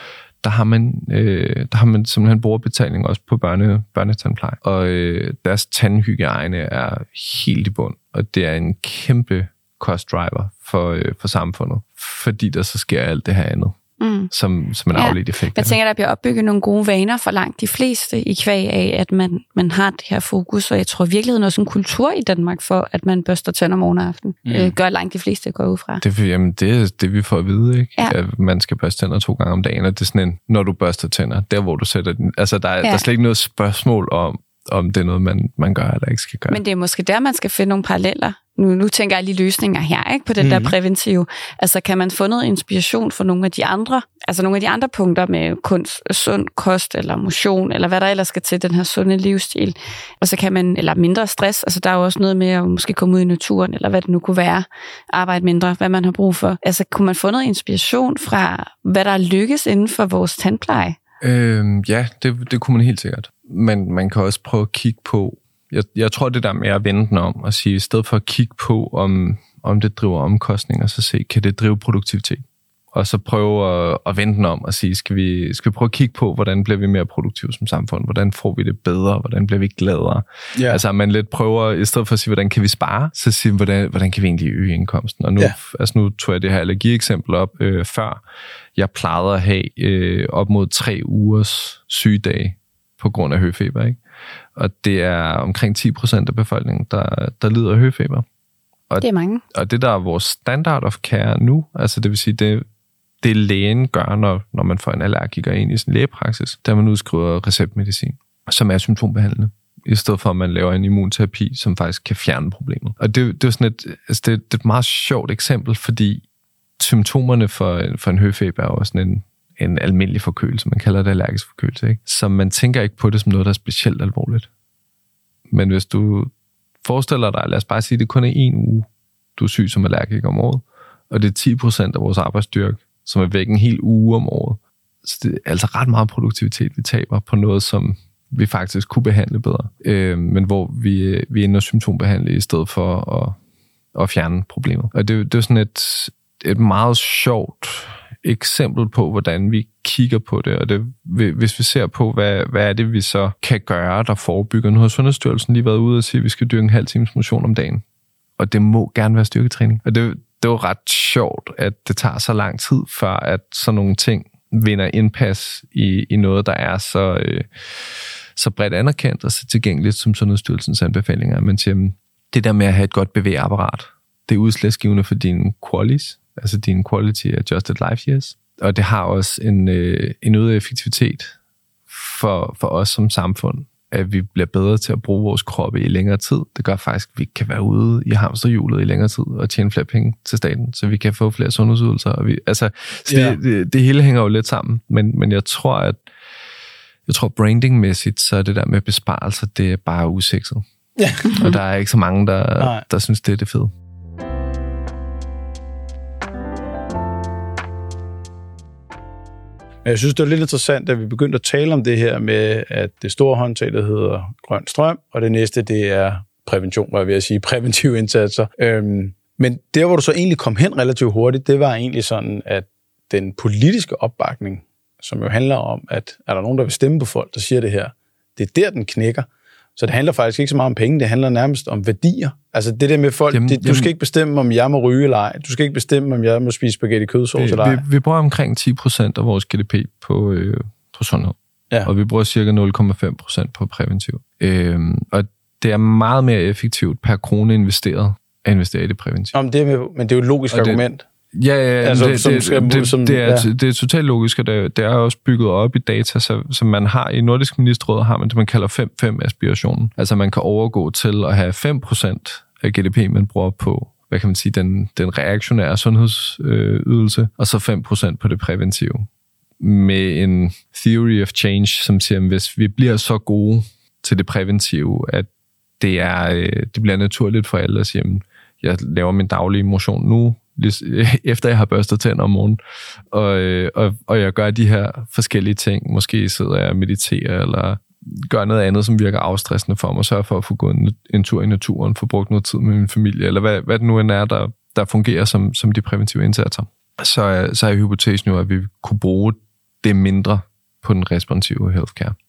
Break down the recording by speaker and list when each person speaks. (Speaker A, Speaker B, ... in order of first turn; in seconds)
Speaker A: 0.4-13.8, 14.3-15.8, 26.0-36.6, 61.2-88.2, 88.8-94.0, 94.5-98.2, 98.9-102.6, 103.2-116.2, 116.8-124.5, 125.5-126.3, 126.8-143.4, 143.9-157.8, 158.4-181.3, 181.9-196.0, 197.1-200.6, 201.2-203.7, 233.3-233.9, 237.3-249.3, 250.5-250.8, 251.3-269.1, 269.6-275.3, 275.8-282.6, 283.1-302.1
Speaker B: 14.0-14.3, 14.9-26.0, 36.5-61.0, 99.0-99.4, 201.3-201.5
Speaker C: 24.4-24.7, 40.4-40.7, 80.5-80.8, 193.1-193.4, 201.0-201.2, 209.8-229.2, 229.8-237.8, 249.3-251.0, 251.8-253.5